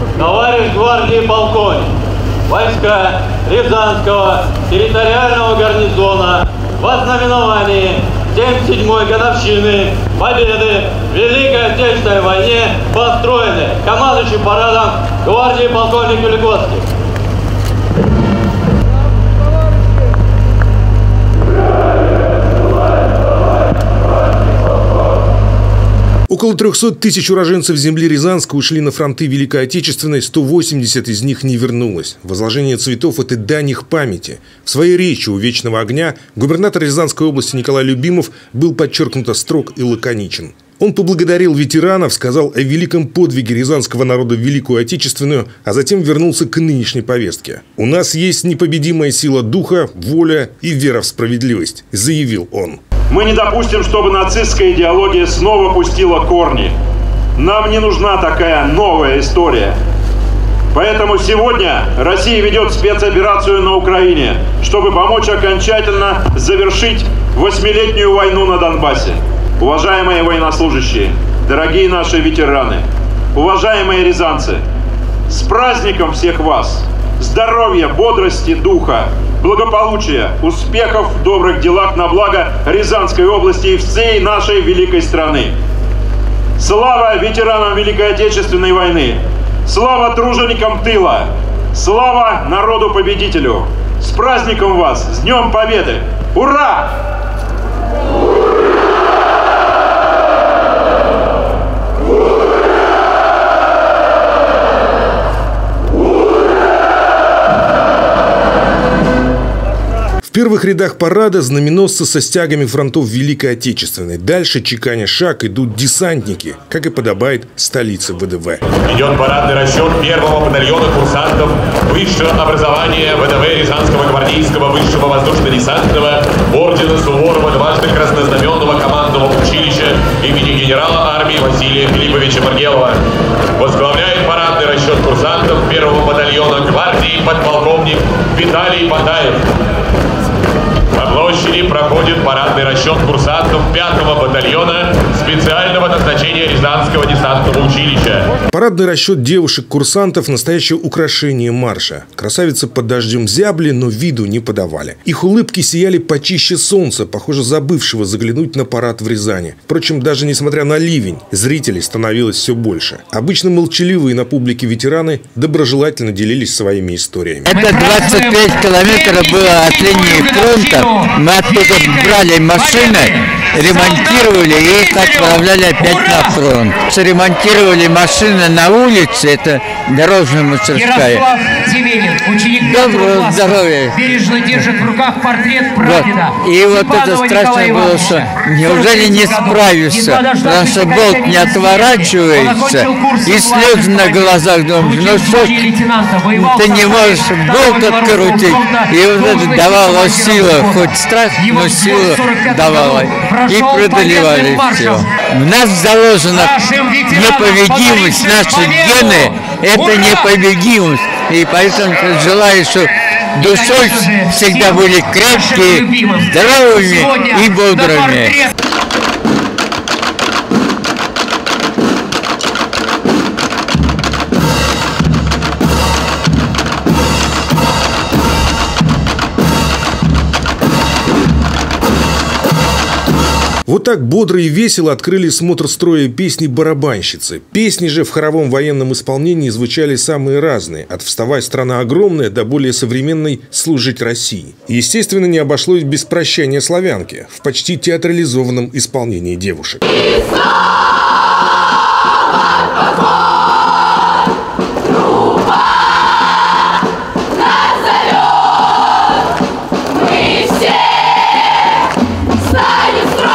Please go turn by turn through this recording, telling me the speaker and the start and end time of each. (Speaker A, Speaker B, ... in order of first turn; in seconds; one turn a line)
Speaker A: 0.2-1.9
Speaker A: 2.5-16.8
Speaker B: 26.3-52.8
Speaker C: 53.1-56.7
Speaker C: 57.4-59.8
Speaker C: 60.7-74.6
Speaker C: 75.3-85.5
Speaker C: 86.6-96.9
Speaker B: 110.3-118.6
Speaker D: 118.8-133.0
Speaker D: 133.6-139.4
Speaker D: 141.0-148.3
Speaker B: 148.5-167.5
Speaker E: 167.5-176.6
Speaker F: 167.5-181.2
Speaker E: 180.7-205.1
Speaker F: 182.6-183.9
Speaker F: 185.8-195.7
Speaker F: 196.3-206.6
Speaker E: 206.3-210.4
Speaker F: 207.1-218.3
Speaker E: 213.4-218.5
Speaker B: 233.7-249.8